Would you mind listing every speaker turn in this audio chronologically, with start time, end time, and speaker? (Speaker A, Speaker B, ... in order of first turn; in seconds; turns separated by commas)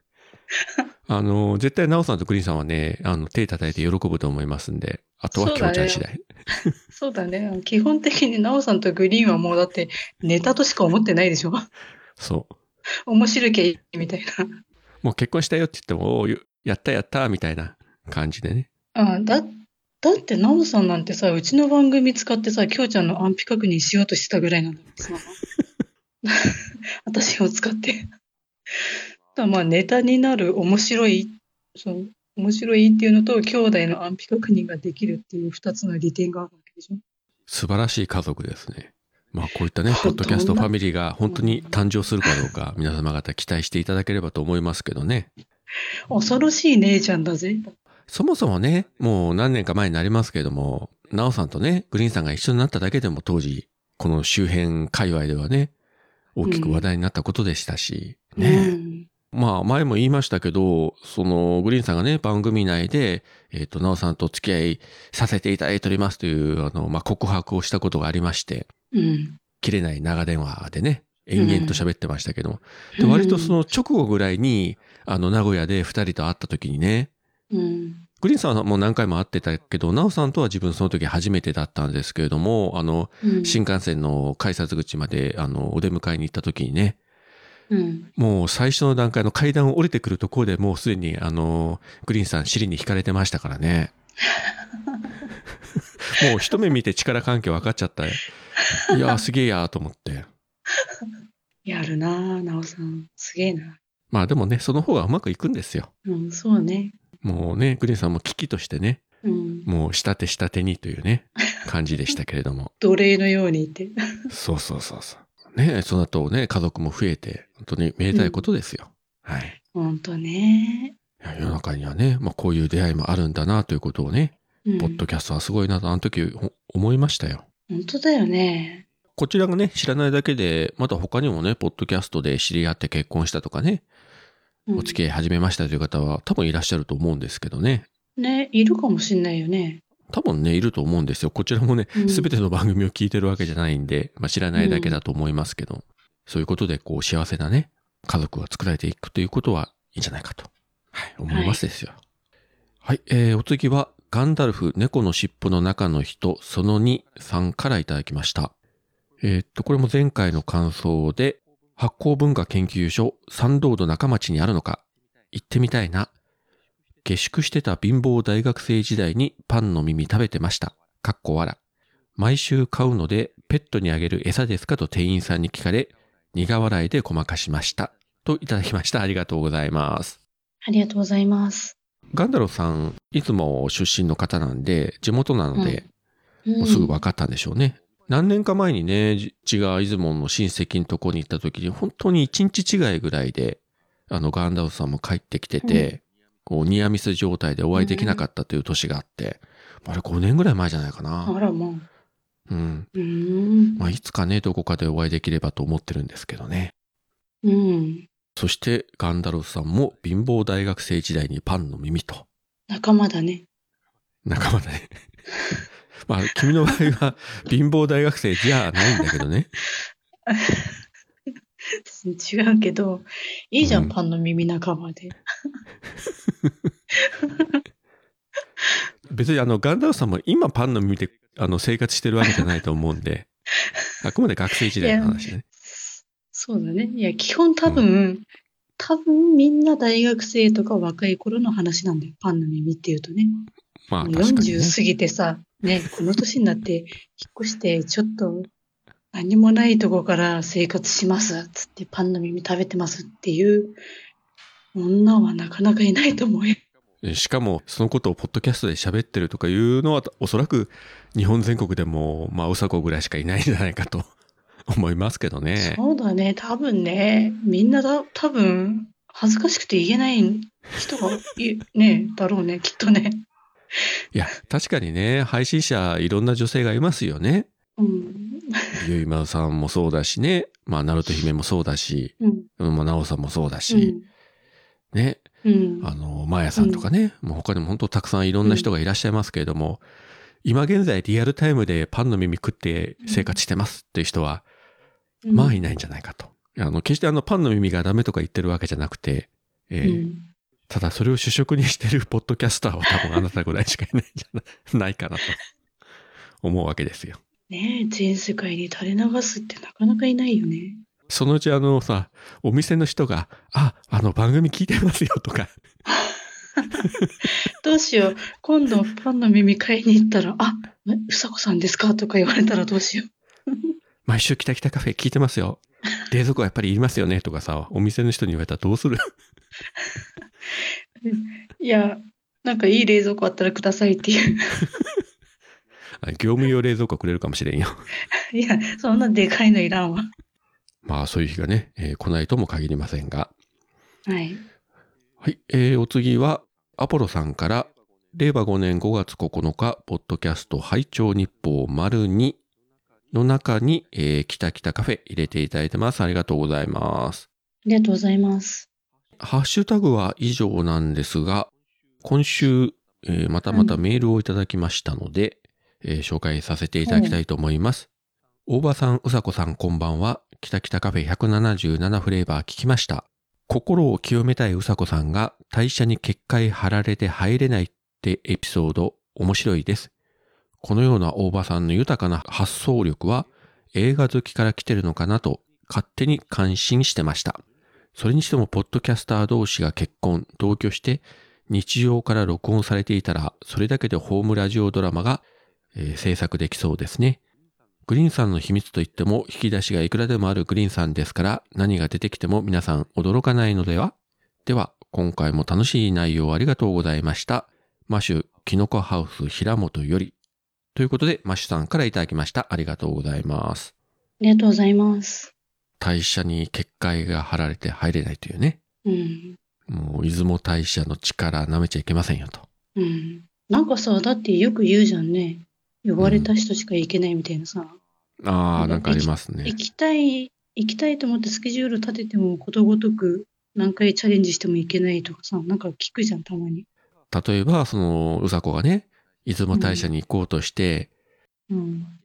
Speaker A: 1.1-6.2, Speaker B: 5.3-6.0, Speaker B: 6.9-11.7, Speaker A: 12.2-12.6, Speaker B: 13.1-14.3, Speaker A: 15.0-18.7, Speaker B: 18.9-25.4, Speaker B: 26.2-28.1, Speaker B: 28.7-37.0, Speaker A: 37.5-45.3, Speaker B: 39.9-40.7, Speaker B: 41.3-41.7, Speaker B: 46.1-47.7, Speaker A: 48.1-55.7, Speaker A: 56.4-58.7, Speaker B: 56.4-56.9, Speaker B: 58.4-59.1, Speaker A: 59.3-68.7, Speaker B: 68.9-69.4, Speaker A: 69.6-77.1, Speaker B: 71.3-71.8, Speaker B: 73.0-73.5, Speaker B: 77.5-78.0, Speaker A: 78.2-87.0, Speaker B: 83.2-83.6, Speaker B: 87.7-88.1, Speaker A: 88.2-93.9, Speaker B: 94.3-95.1, Speaker A: 96.0-98.3, Speaker A: 98.9-100.3, Speaker B: 101.7-103.8, Speaker A: 104.1-105.9, Speaker B: 106.0-106.9, Speaker A: 107.2-109.0, Speaker B: 109.2-109.7, Speaker A: 109.6-112.7, Speaker B: 112.8-113.9, Speaker A: 114.3-119.6, Speaker B: 118.1-118.5, Speaker B: 119.7-120.9, Speaker A: 121.2-127.4, Speaker B: 124.6-125.0, Speaker B: 127.7-128.8, Speaker A: 129.2-133.8, Speaker B: 134.7-135.0, Speaker A: 134.8-137.8, Speaker B: 138.2-139.8, Speaker A: 140.1-152.0, Speaker B: 141.9-142.3, Speaker B: 144.6-145.0, Speaker B: 151.3-151.6, Speaker A: 152.8-158.5, Speaker A: 159.2-166.1, Speaker A: 167.0-171.6, Speaker A: 172.2-180.2, Speaker B: 180.6-181.8, Speaker A: 182.1-185.8, Speaker B: 185.5-185.8, Speaker B: 186.4-186.9, Speaker A: 186.6-201.3, Speaker B: 197.7-198.2, Speaker B: 201.2-201.9, Speaker A: 202.5-202.9, Speaker B: 202.9-203.8, Speaker A: 203.8-206.7, Speaker B: 207.4-208.1, Speaker A: 208.3-212.2, Speaker B: 212.7-213.4, Speaker A: 214.2-214.9, Speaker A: 216.1-219.5, Speaker B: 220.3-220.7, Speaker B: 221.8-225.2, Speaker A: 223.6-223.9, Speaker B: 227.0-227.6, Speaker A: 229.1-233.3, Speaker A: 234.0-235.4, Speaker B: 234.8-238.2, Speaker B: 238.8-243.5, Speaker A: 243.9-244.8, Speaker B: 244.0-248.5, Speaker B: 249.1-253.8, Speaker B: 254.7-256.6, Speaker A: 257.0-264.1, Speaker A: 264.7-265.8, Speaker B: 265.6-273.2, Speaker A: 274.1-277.5, Speaker B: 277.8-278.8, Speaker A: 278.8-283.9, Speaker B: 282.2-282.5, Speaker B: 283.7-284.1, Speaker A: 284.9-285.2, Speaker B: 285.4-285.9, Speaker A: 285.8-289.8, Speaker B: 286.6-286.9, Speaker B: 288.4-288.7, Speaker A: 290.4-294.4, Speaker B: 293.1-293.3, Speaker B: 295.2-295.6, Speaker A: 295.3-300.0, Speaker B: 299.8-300.3, Speaker A: 300.7-305.4, Speaker A: 306.4-307.2, Speaker B: 307.5-310.8, Speaker A: 311.1-315.6, Speaker B: 315.9-316.8, Speaker A: 316.8-317.1, Speaker B: 317.6-323.7, Speaker A: 324.1-329.1, Speaker B: 331.0-334.6, Speaker A: 336.0-337.8, Speaker B: 338.3-340.1, Speaker A: 340.8-343.3, Speaker B: 344.1-344.4, Speaker A: 345.2-352.4, Speaker A: 353.1-357.2, Speaker B: 357.6-358.7, Speaker A: 359.2-361.5, Speaker A: 362.0-367.9, Speaker B: 363.5-363.8, Speaker B: 366.8-367.2, Speaker A: 368.4-379.9, Speaker A: 380.6-387.4, Speaker A: 387.9-397.2, Speaker A: 397.9-403.9, Speaker A: 404.4-410.1, Speaker A: 410.7-413.7, Speaker B: 414.2-415.3, Speaker A: 415.8-418.6, Speaker B: 418.8-419.4, Speaker A: 419.7-422.4, Speaker B: 422.8-427.8, Speaker A: 426.0-426.3, Speaker A: 428.2-429.5, Speaker B: 428.6-436.6, Speaker A: 437.1-440.9, Speaker B: 439.5-439.9, Speaker B: 441.5-441.9